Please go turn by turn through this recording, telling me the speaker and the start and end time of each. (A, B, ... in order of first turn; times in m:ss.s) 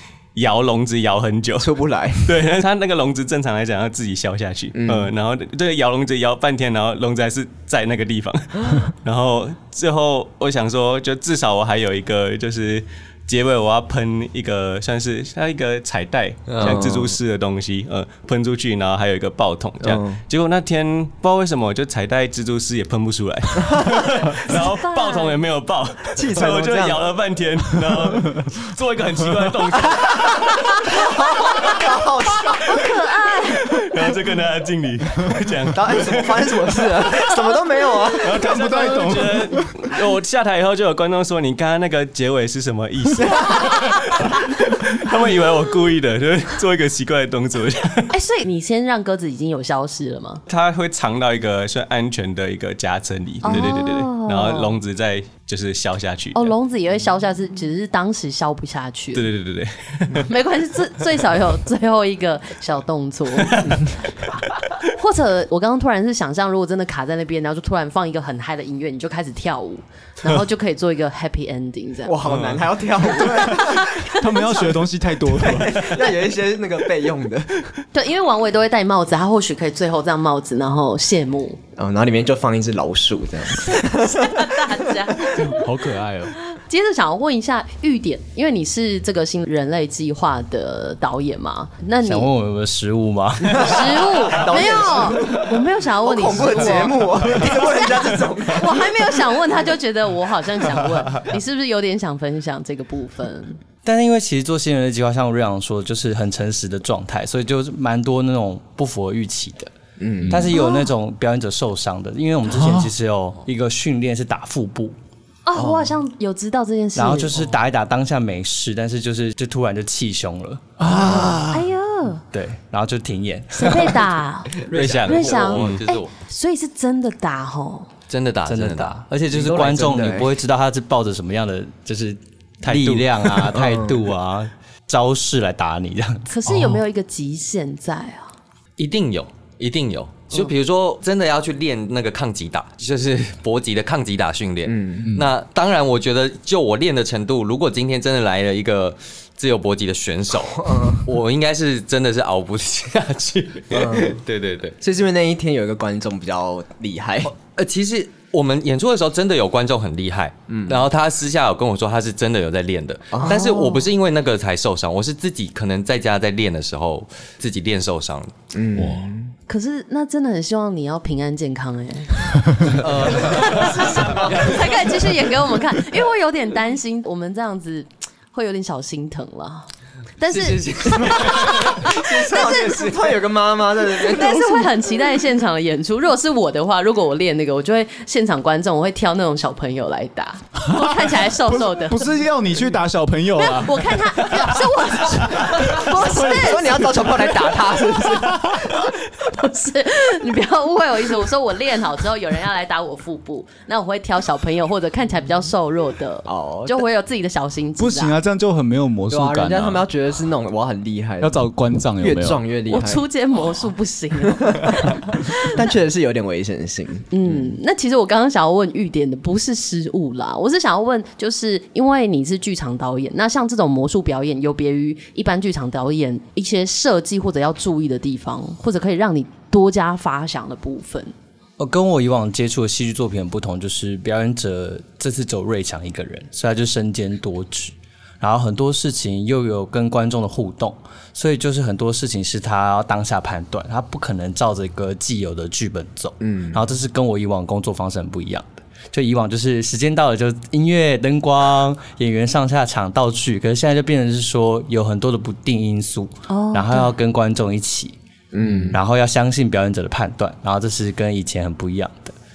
0:00.4-0:31.9 A
0:01.6-0:02.4 B
0:04.7-0:05.1 B
0:16.5-0:16.9 C
0:16.6-0:17.2 B
0:19.8-0:20.2 B
0:24.5-0:25.4 D
0:26.2-0:27.1 B
0:30.9-0:32.8 B
0:32.5-0:32.9 A
0:32.6-0:33.8 D
0:33.6-0:37.5 A
0:35.7-0:38.5 B
0:38.1-0:48.1 A
0:38.4-0:39.7 E
0:48.1-0:50.4 D
0:50.5-0:56.5 A
0:53.4-0:54.7 D
0:56.4-0:59.3 D
0:59.1-1:00.3 A
1:00.2-1:12.2 D
1:03.4-1:03.9 A
1:12.1-1:14.0 B
1:12.2-1:12.6 A
1:13.1-1:16.0 E
1:13.1-1:14.6 D
1:15.3-1:17.8 B
1:17.9-1:21.6 D
1:21.8-1:24.8 B
1:23.6-1:25.6 D
1:25.4-1:26.4 E
1:26.4-1:32.3 D
1:32.0-1:34.0 F
1:33.5-1:43.6 D
1:33.6-1:38.9 B
1:43.8-1:49.7 F
1:50.0-1:50.4 B
1:50.2-1:50.5 E
1:50.3-1:55.0 F
1:50.5-1:50.9 D
1:52.5-1:52.9 E
1:55.5-1:57.5 D
1:55.6-1:55.9 B
1:57.0-2:00.8 F
2:00.8-2:01.7 E
2:00.9-2:02.2 D
2:02.3-2:04.0 F
2:03.6-2:07.9 D
2:04.6-2:06.1 C
2:04.7-2:05.8 A
2:08.1-2:09.0 C
2:08.5-2:16.3 F
2:09.3-2:10.3 B
2:12.6-2:13.0 A
2:13.6-2:14.0 B
2:16.3-2:18.3 D
2:16.5-2:16.8 E
2:18.8-2:34.8 C
2:24.7-2:25.1 B
2:30.7-2:31.0 B
2:33.7-2:34.2 B
2:34.8-2:37.3 B
2:37.2-2:48.3 C
2:40.5-2:40.8 B
2:43.3-2:43.9 D
2:48.5-2:49.3 B
2:48.8-2:49.1 E
2:49.5-2:59.7 D
2:52.7-2:55.2 C
2:54.0-2:54.3 B
3:00.2-3:03.0 D
3:00.3-3:02.9 C
3:01.7-3:04.8 B
3:03.9-3:12.1 D
3:10.6-3:14.6 E
3:13.4-3:28.2 D
3:15.3-3:16.3 E
3:15.6-3:18.6 B
3:26.3-3:26.8 B
3:27.8-3:29.9 E
3:29.1-3:31.4 B
3:31.2-3:32.4 E
3:32.0-3:33.0 B
3:32.7-3:35.6 D
3:34.4-3:34.8 B
3:35.4-3:37.5 B
3:37.1-3:51.1 D
3:51.6-4:22.2 F
4:06.2-4:06.7 B
4:16.3-4:17.0 D
4:18.3-4:18.8 B